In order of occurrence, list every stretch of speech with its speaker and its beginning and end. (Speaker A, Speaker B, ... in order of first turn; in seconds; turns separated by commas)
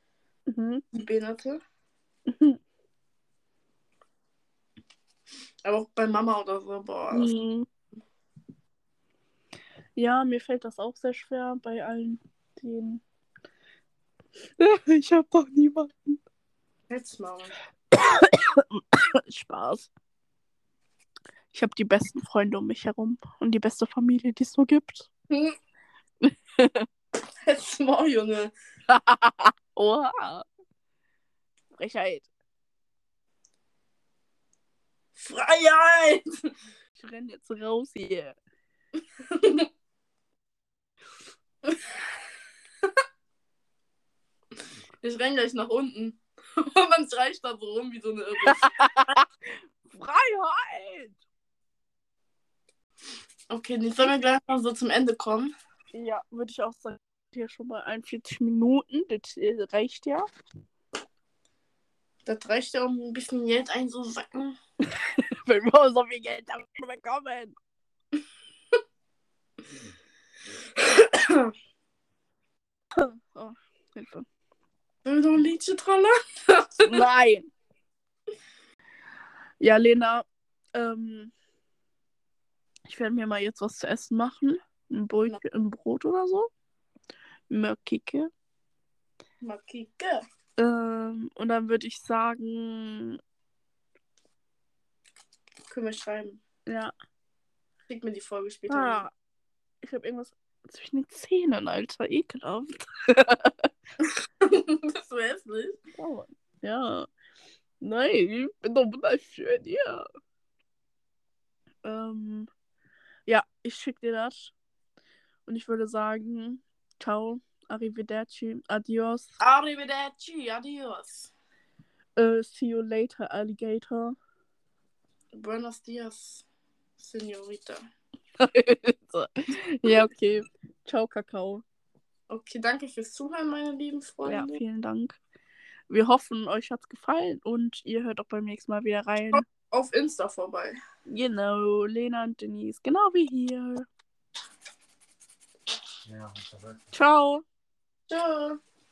Speaker A: 0.5-0.8, Speaker B: 0.9-1.6, Speaker A: 2.3-2.6, Speaker B: 5.6-7.3, Speaker A: 7.1-7.7, Speaker A: 9.9-13.0, Speaker A: 14.6-16.2, Speaker B: 16.9-17.5, Speaker A: 17.9-19.9, Speaker A: 21.5-25.1, Speaker A: 26.2-26.9, Speaker B: 27.4-28.5, Speaker A: 28.9-30.4, Speaker A: 31.7-32.3, Speaker B: 35.1-36.2, Speaker A: 37.0-38.4, Speaker B: 39.2-39.7, Speaker B: 45.0-48.6, Speaker A: 48.5-49.2, Speaker A: 49.8-51.2, Speaker B: 53.5-55.5, Speaker A: 55.9-60.3, Speaker B: 62.2-64.5, Speaker A: 64.9-67.5, Speaker B: 70.8-71.5, Speaker A: 73.0-74.2, Speaker B: 75.0-76.9, Speaker A: 76.8-77.5, Speaker A: 79.6-81.3, Speaker A: 82.8-86.5, Speaker A: 87.5-88.3, Speaker B: 89.4-90.2, Speaker A: 90.6-93.2, Speaker B: 95.7-96.4, Speaker A: 96.7-96.9, Speaker B: 97.9-99.0, Speaker A: 98.7-99.1, Speaker A: 99.8-103.5, Speaker B: 104.0-105.8, Speaker A: 106.0-107.1, Speaker A: 107.8-110.0, Speaker A: 111.8-112.5, Speaker A: 113.3-114.5, Speaker A: 115.5-119.3, Speaker B: 119.4-121.3, Speaker A: 122.2-124.2, Speaker B: 125.3-126.4, Speaker B: 127.0-127.8, Speaker A: 128.4-131.6, Speaker B: 132.3-134.6, Speaker A: 134.2-135.2, Speaker A: 135.9-139.4, Speaker B: 139.3-140.8, Speaker A: 141.1-143.9, Speaker A: 146.9-147.4, Speaker B: 148.1-148.6